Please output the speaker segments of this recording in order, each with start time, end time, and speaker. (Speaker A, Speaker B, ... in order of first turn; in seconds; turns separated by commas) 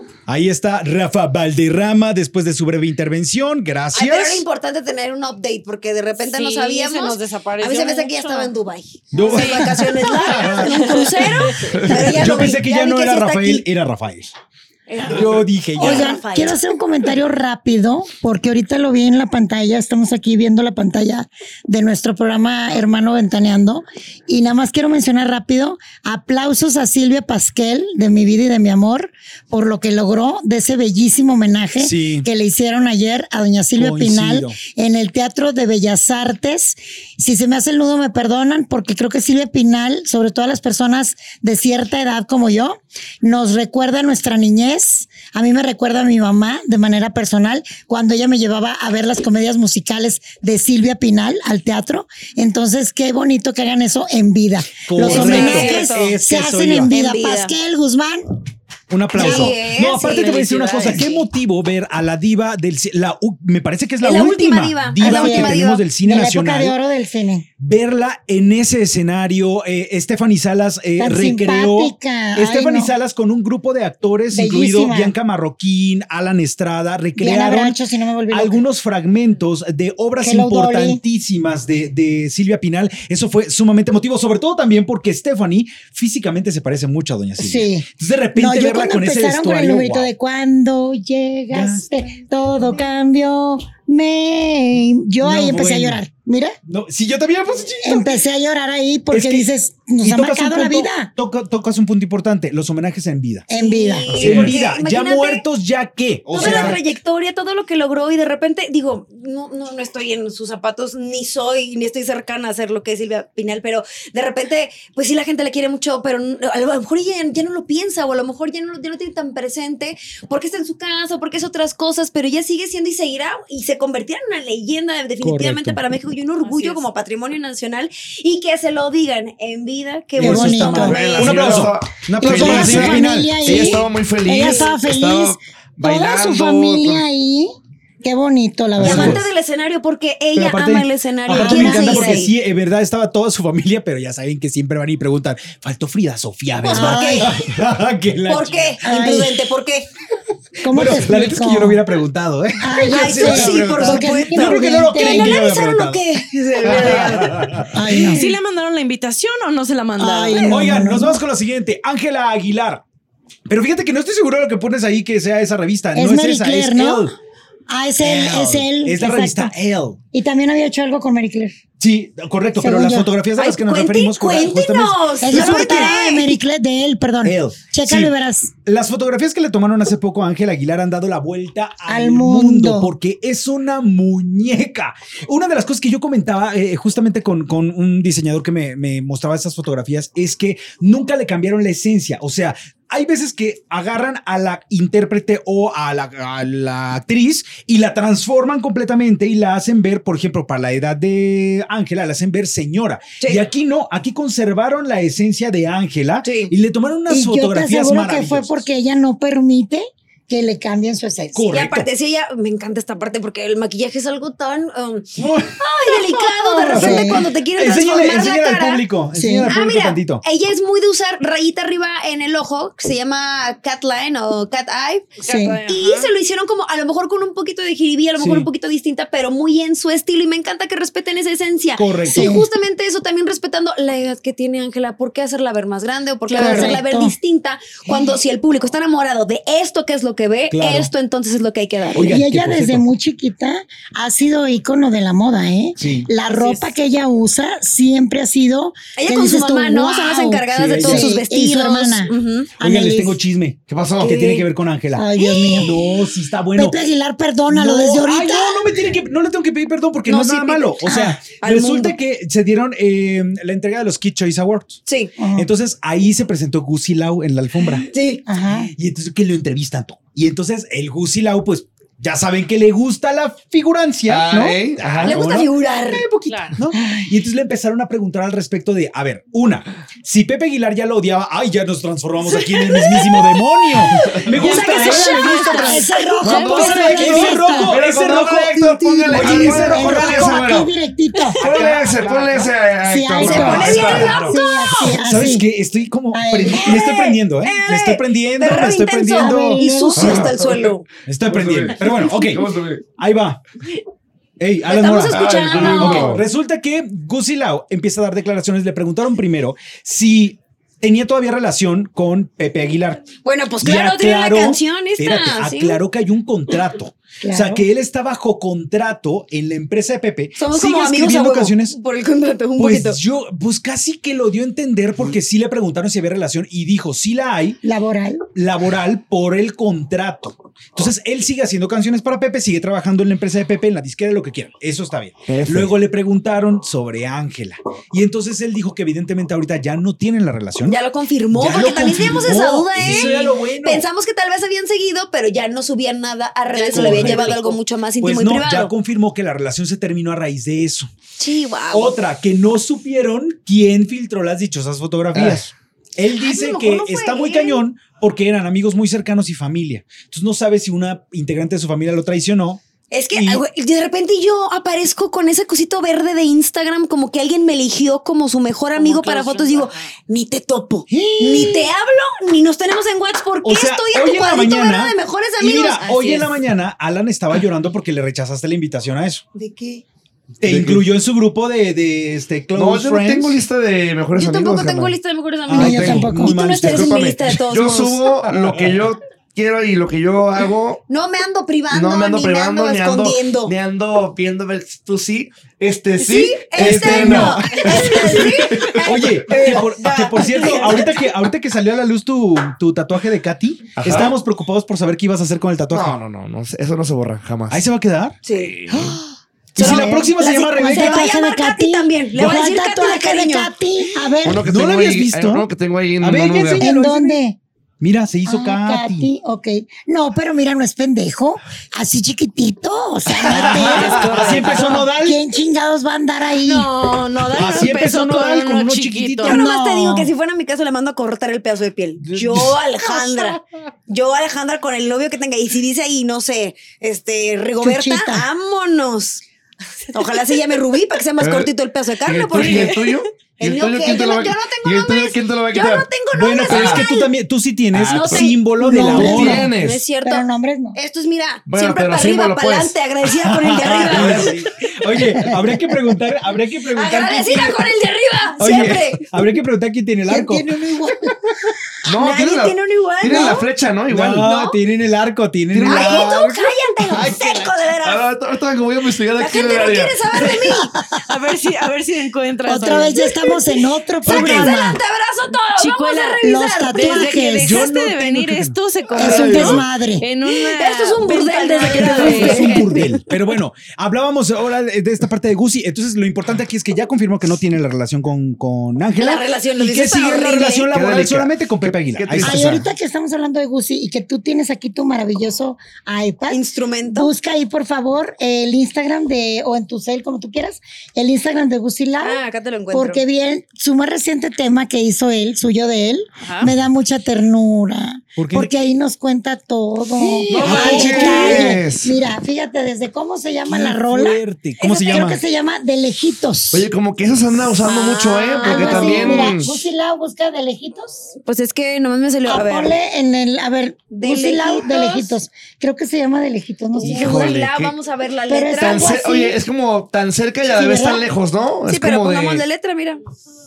Speaker A: 0.3-4.4, Speaker B: 3.9-13.7, Speaker C: 6.2-8.5, Speaker A: 9.1-14.3, Speaker C: 9.2-12.3, Speaker B: 14.9-16.6, Speaker A: 15.1-16.2, Speaker D: 15.8-58.4, Speaker A: 31.8-32.3, Speaker A: 33.8-34.6, Speaker A: 54.9-56.9, Speaker B: 55.0-56.2, Speaker B: 56.9-57.5, Speaker A: 58.9-66.8, Speaker B: 59.1-61.2, Speaker D: 59.2-59.6, Speaker C: 60.1-61.2, Speaker B: 64.0-65.8, Speaker D: 65.0-67.5, Speaker A: 67.6-77.8, Speaker D: 71.0-72.9, Speaker D: 74.3-75.1, Speaker D: 77.2-78.6, Speaker A: 78.3-90.1, Speaker D: 80.2-81.0, Speaker D: 87.4-96.6, Speaker A: 91.5-92.1, Speaker A: 95.2-96.0, Speaker A: 96.7-98.2, Speaker D: 97.8-101.1, Speaker A: 99.1-103.5, Speaker D: 103.5-104.3, Speaker B: 103.5-105.5, Speaker E: 104.1-104.5, Speaker A: 104.2-106.8, Speaker B: 106.3-131.7, Speaker A: 125.2-125.8, Speaker C: 126.4-126.8, Speaker A: 130.2-133.8, Speaker D: 130.2-131.2, Speaker E: 130.7-137.0, Speaker D: 132.2-139.2, Speaker B: 134.4-134.7, Speaker A: 138.8-139.2, Speaker B: 138.8-142.3, Speaker A: 140.3-148.8, Speaker D: 141.3-142.2, Speaker B: 146.6-147.3, Speaker D: 146.7-147.3, Speaker B: 148.3-149.9, Speaker D: 148.8-149.3, Speaker D: 150.6-151.8, Speaker A: 150.7-156.1, Speaker D: 152.6-155.4, Speaker B: 152.8-157.5, Speaker A: 156.6-158.2, Speaker D: 157.7-158.3, Speaker C: 158.0-160.5, Speaker D: 160.0-161.2, Speaker B: 160.3-160.6, Speaker A: 160.5-162.8, Speaker A: 163.5-167.2, Speaker D: 165.9-167.1, Speaker D: 167.7-169.5, Speaker A: 168.0-170.0, Speaker D: 170.1-171.6, Speaker A: 171.8-175.9, Speaker D: 172.6-173.1, Speaker B: 173.4-176.4, Speaker D: 175.2-178.5, Speaker A: 177.2-208.7, Speaker D: 181.9-182.9, Speaker B: 203.2-203.4, Speaker B: 206.2-206.5, Speaker D: 207.1-211.5, Speaker A: 211.3-211.9, Speaker B: 211.5-218.8, Speaker A: 215.2-215.6, Speaker C: 215.9-216.5, Speaker A: 216.6-220.2, Speaker D: 216.7-217.2, Speaker D: 219.2-219.5, Speaker B: 219.5-225.1, Speaker C: 225.2-226.1, Speaker D: 225.2-225.6, Speaker B: 225.7-242.2, Speaker A: 228.2-228.5, Speaker A: 231.8-232.3, Speaker D: 232.1-232.5, Speaker D: 236.3-237.1, Speaker C: 236.4-236.7, Speaker A: 240.5-240.9, Speaker A: 241.9-242.9, Speaker D: 242.0-253.2, Speaker A: 245.8-246.1, Speaker C: 246.3-246.6, Speaker B: 249.0-252.5, Speaker A: 250.5-251.2, Speaker A: 252.6-256.8, Speaker E: 253.7-254.2, Speaker B: 254.0-254.4, Speaker D: 255.0-255.8, Speaker B: 255.2-255.6, Speaker D: 256.6-258.7, Speaker A: 257.5-264.8, Speaker B: 260.1-260.9, Speaker D: 260.9-261.2, Speaker B: 261.4-261.9, Speaker B: 264.9-265.1, Speaker D: 265.2-265.5, Speaker A: 265.4-267.9, Speaker B: 267.9-268.3, Speaker D: 268.3-268.7, Speaker A: 268.4-290.4, Speaker E: 274.1-275.4, Speaker B: 275.0-276.1, Speaker C: 276.3-276.6, Speaker D: 276.7-277.1, Speaker B: 282.4-286.2, Speaker C: 284.4-287.6, Speaker D: 284.5-287.8, Speaker E: 286.2-290.7, Speaker D: 289.2-291.4, Speaker E: 291.4-294.3, Speaker A: 291.4-292.6, Speaker D: 292.8-295.5, Speaker A: 293.2-299.6, Speaker B: 293.2-294.9, Speaker D: 296.1-296.9, Speaker B: 296.5-300.9, Speaker D: 299.1-300.3, Speaker E: 300.0-300.7, Speaker A: 301.1-303.4, Speaker E: 301.2-302.9, Speaker A: 304.4-313.1, Speaker B: 304.7-306.2, Speaker E: 305.1-306.2, Speaker B: 313.2-315.8, Speaker A: 313.6-321.8, Speaker D: 317.2-317.6, Speaker B: 320.4-323.0, Speaker A: 322.6-327.6, Speaker D: 327.6-328.3, Speaker A: 328.4-340.8, Speaker E: 335.3-335.7, Speaker B: 340.6-348.7, Speaker A: 341.3-343.9, Speaker C: 346.6-347.3, Speaker A: 346.7-350.9, Speaker E: 346.7-347.4, Speaker B: 351.2-352.0, Speaker A: 351.7-362.6, Speaker E: 355.1-355.5, Speaker B: 356.2-357.6, Speaker B: 362.9-376.2, Speaker A: 363.1-363.4, Speaker C: 368.8-369.9, Speaker A: 370.9-371.7, Speaker A: 373.4-379.2, Speaker C: 375.9-376.3, Speaker B: 379.4-379.8, Speaker A: 380.4-383.4, Speaker E: 380.4-380.8, Speaker E: 382.6-385.0, Speaker B: 384.1-388.1, Speaker A: 385.5-387.1, Speaker D: 385.5-386.4, Speaker E: 385.6-390.8, Speaker A: 388.3-388.8, Speaker B: 390.9-393.6, Speaker E: 391.7-399.1, Speaker B: 396.0-401.1, Speaker A: 396.6-406.0, Speaker E: 403.8-404.1, Speaker E: 405.7-407.6, Speaker A: 407.5-408.2, Speaker B: 408.2-408.6, Speaker E: 408.3-408.9, Speaker A: 409.6-411.1, Speaker B: 409.6-413.5, Speaker D: 409.6-414.5, Speaker E: 414.2-416.6, Speaker A: 414.4-415.5, Speaker A: 416.0-417.2, Speaker D: 416.6-417.4, Speaker A: 417.8-419.1, Speaker D: 418.3-426.7, Speaker E: 423.2-424.0, Speaker A: 423.3-425.2, Speaker C: 423.7-424.8, Speaker C: 426.4-429.4, Speaker A: 427.3-429.4, Speaker D: 429.2-430.1, Speaker B: 429.2-439.2, Speaker A: 432.1-432.6, Speaker D: 437.6-438.3, Speaker B: 439.9-447.1, Speaker E: 441.2-441.5, Speaker E: 442.0-445.9, Speaker C: 442.4-443.0, Speaker A: 446.1-449.5, Speaker E: 446.5-446.9, Speaker E: 447.7-449.9, Speaker B: 447.9-448.4, Speaker D: 448.6-450.8, Speaker B: 449.0-454.4, Speaker E: 451.5-452.8, Speaker A: 453.2-457.7, Speaker E: 453.7-454.3, Speaker B: 456.7-459.1, Speaker A: 458.4-460.6, Speaker D: 460.1-461.2, Speaker E: 461.9-464.3, Speaker B: 461.9-463.5, Speaker A: 463.9-466.3, Speaker B: 464.2-464.6, Speaker E: 465.5-466.4, Speaker B: 465.6-468.1, Speaker E: 466.9-470.0, Speaker B: 469.2-470.7, Speaker C: 471.1-473.1, Speaker D: 472.5-474.8, Speaker B: 473.0-473.4, Speaker B: 474.0-477.3, Speaker C: 475.5-482.9, Speaker D: 476.2-477.7, Speaker A: 477.4-478.6, Speaker E: 479.0-479.6, Speaker D: 479.0-480.1, Speaker B: 480.2-482.9, Speaker A: 481.8-492.6, Speaker B: 489.0-490.7, Speaker E: 490.7-492.7, Speaker D: 492.2-502.2, Speaker B: 496.3-497.1, Speaker B: 502.0-503.0, Speaker D: 502.7-516.7, Speaker C: 506.2-506.5, Speaker A: 508.2-508.7, Speaker B: 510.2-511.5, Speaker E: 510.3-512.0, Speaker A: 510.3-511.6, Speaker A: 513.5-515.2, Speaker E: 516.5-519.6, Speaker B: 517.6-519.4, Speaker D: 518.4-521.1, Speaker B: 521.2-522.7, Speaker D: 522.3-527.4, Speaker B: 523.9-525.2, Speaker B: 526.7-529.2, Speaker E: 526.8-527.8, Speaker D: 528.3-529.4, Speaker E: 528.6-532.5, Speaker D: 530.5-531.1, Speaker B: 531.7-533.0